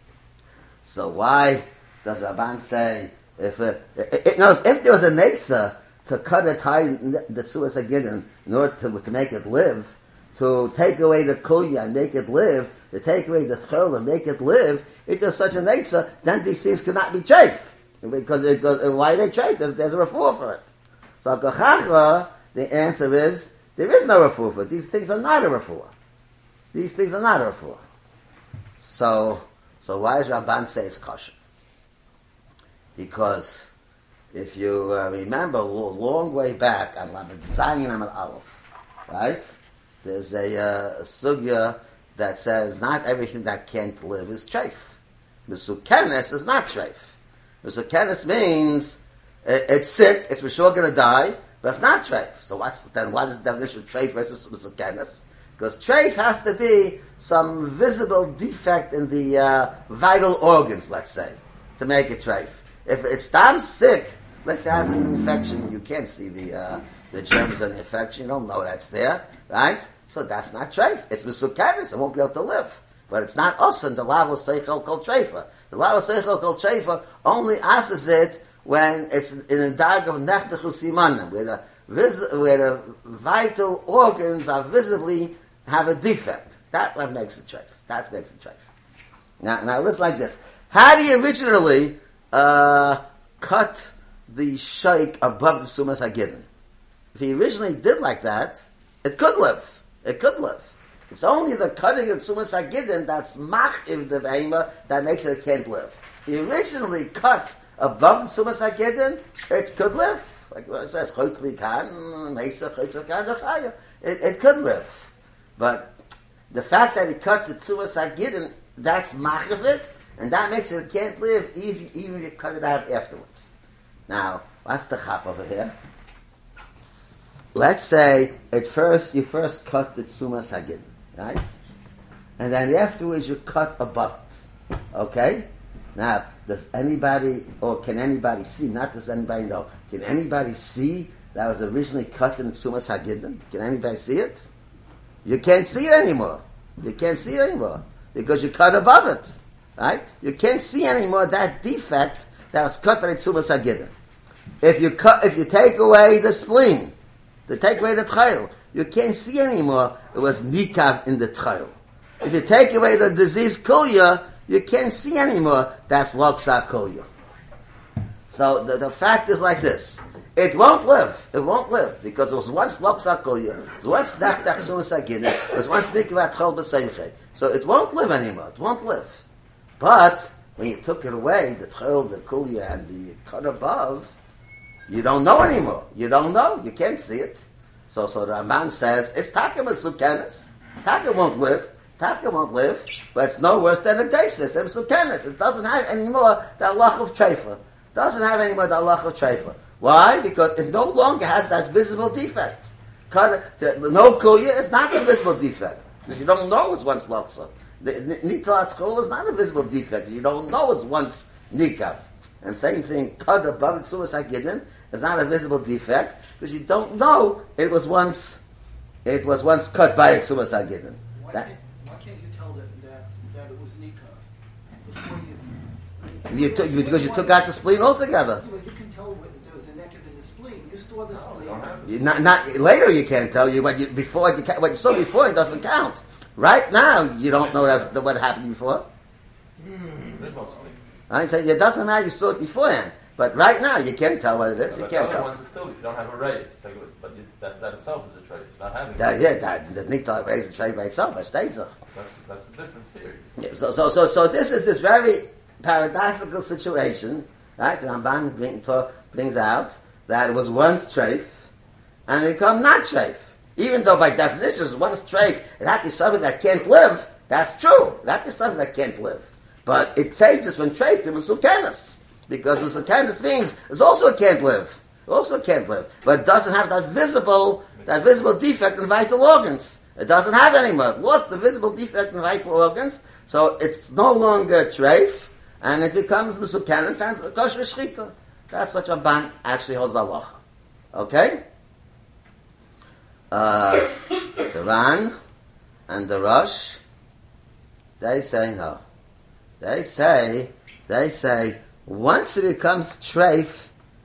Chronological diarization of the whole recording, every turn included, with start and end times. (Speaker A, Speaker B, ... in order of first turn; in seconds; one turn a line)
Speaker A: 0.8-20.7
Speaker A: 21.2-25.9
Speaker A: 26.7-27.8
Speaker A: 28.8-31.3
Speaker A: 33.0-33.7
Speaker A: 34.3-88.6
Speaker A: 89.4-96.5
Speaker A: 97.1-115.9
Speaker A: 116.5-123.5
Speaker A: 124.1-125.7
Speaker A: 127.5-131.5
Speaker A: 132.4-134.4
Speaker A: 134.9-144.5
Speaker A: 145.2-153.9
Speaker A: 154.6-156.9
Speaker A: 157.5-167.1
Speaker A: 168.3-179.2
Speaker A: 179.8-184.1
Speaker A: 184.9-218.4
Speaker A: 219.0-221.5
Speaker B: 221.1-224.2
Speaker B: 224.8-227.5
Speaker A: 226.3-228.4
Speaker B: 228.3-231.7
Speaker C: 231.1-232.0
Speaker A: 231.8-238.9
Speaker C: 237.3-237.9
Speaker C: 240.0-240.8
Speaker A: 241.1-245.3
Speaker C: 244.7-249.2
Speaker A: 248.9-251.7
Speaker C: 251.9-253.3
Speaker A: 253.4-261.5
Speaker A: 262.1-290.4
Speaker A: 290.9-291.4
Speaker A: 293.3-295.1
Speaker A: 295.9-296.8
Speaker A: 298.0-298.8
Speaker A: 299.6-303.7